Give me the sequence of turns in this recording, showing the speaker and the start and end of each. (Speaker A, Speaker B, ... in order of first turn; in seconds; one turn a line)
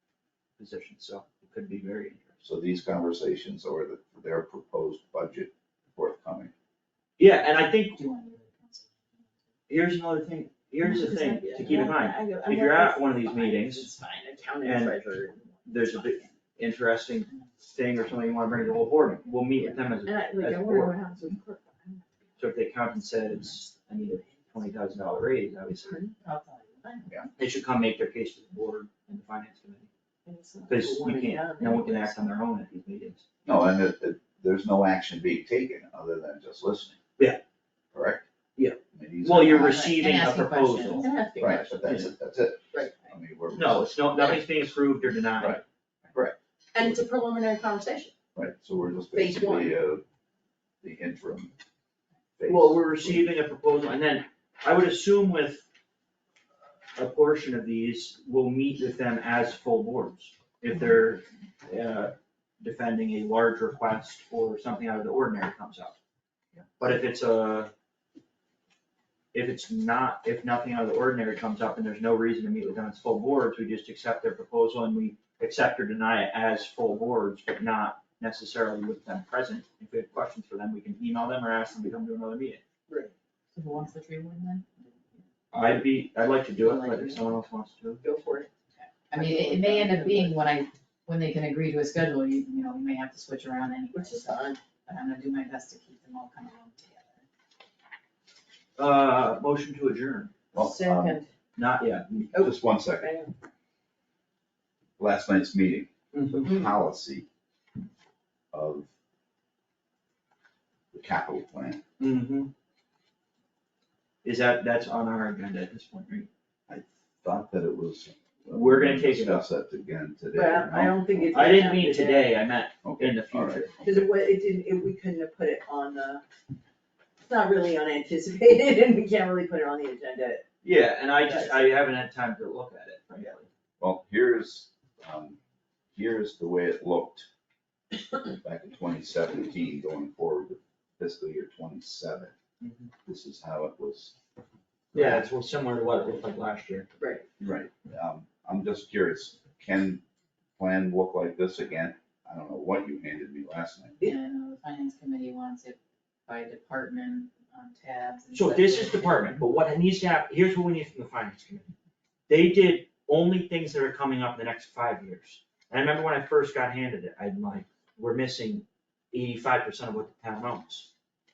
Speaker A: 0.6-2.3
Speaker B: 2.4-6.5
Speaker A: 7.2-8.1
Speaker C: 7.9-9.3
Speaker A: 9.7-13.9
Speaker D: 10.8-16.1
Speaker A: 14.6-15.0
Speaker A: 15.7-20.9
Speaker D: 19.6-22.3
Speaker A: 22.4-26.0
Speaker D: 25.7-26.1
Speaker C: 26.2-27.1
Speaker A: 27.4-29.9
Speaker D: 30.2-32.2
Speaker A: 30.7-33.2
Speaker B: 33.4-37.0
Speaker B: 37.9-38.2
Speaker A: 38.5-41.1
Speaker B: 38.9-39.9
Speaker C: 39.5-41.0
Speaker D: 40.8-41.9
Speaker B: 41.4-43.9
Speaker A: 41.8-42.1
Speaker A: 43.5-45.6
Speaker B: 46.1-46.9
Speaker D: 46.7-48.1
Speaker B: 48.3-50.0
Speaker D: 49.1-49.8
Speaker B: 50.8-51.5
Speaker B: 52.4-53.3
Speaker A: 52.5-55.6
Speaker A: 57.0-66.0
Speaker A: 66.8-67.7
Speaker A: 69.3-82.6
Speaker D: 82.9-83.1
Speaker C: 83.5-85.2
Speaker A: 85.5-88.0
Speaker C: 86.6-87.4
Speaker D: 88.0-88.5
Speaker C: 88.8-97.2
Speaker D: 89.1-90.4
Speaker D: 93.9-94.6
Speaker A: 98.8-100.3
Speaker B: 100.5-101.2
Speaker D: 100.5-101.3
Speaker A: 101.5-102.3
Speaker B: 102.3-103.1
Speaker D: 102.3-103.3
Speaker B: 105.0-107.2
Speaker A: 106.1-106.5
Speaker B: 108.5-108.9
Speaker B: 110.9-111.8
Speaker A: 112.0-112.5
Speaker A: 114.2-116.3
Speaker B: 116.7-121.3
Speaker A: 118.5-119.5
Speaker D: 120.3-122.3
Speaker A: 121.3-123.7
Speaker B: 122.8-124.1
Speaker D: 123.8-126.2
Speaker D: 127.2-130.5
Speaker A: 130.6-133.5
Speaker D: 131.2-131.6
Speaker B: 133.8-135.4
Speaker B: 135.9-137.3
Speaker B: 138.4-142.3
Speaker A: 142.6-142.9
Speaker B: 143.1-144.2
Speaker B: 144.9-145.3
Speaker A: 144.9-146.9
Speaker D: 147.0-147.3
Speaker B: 147.4-150.0
Speaker B: 150.6-154.0
Speaker C: 154.0-159.4
Speaker A: 158.3-161.7
Speaker A: 162.3-170.9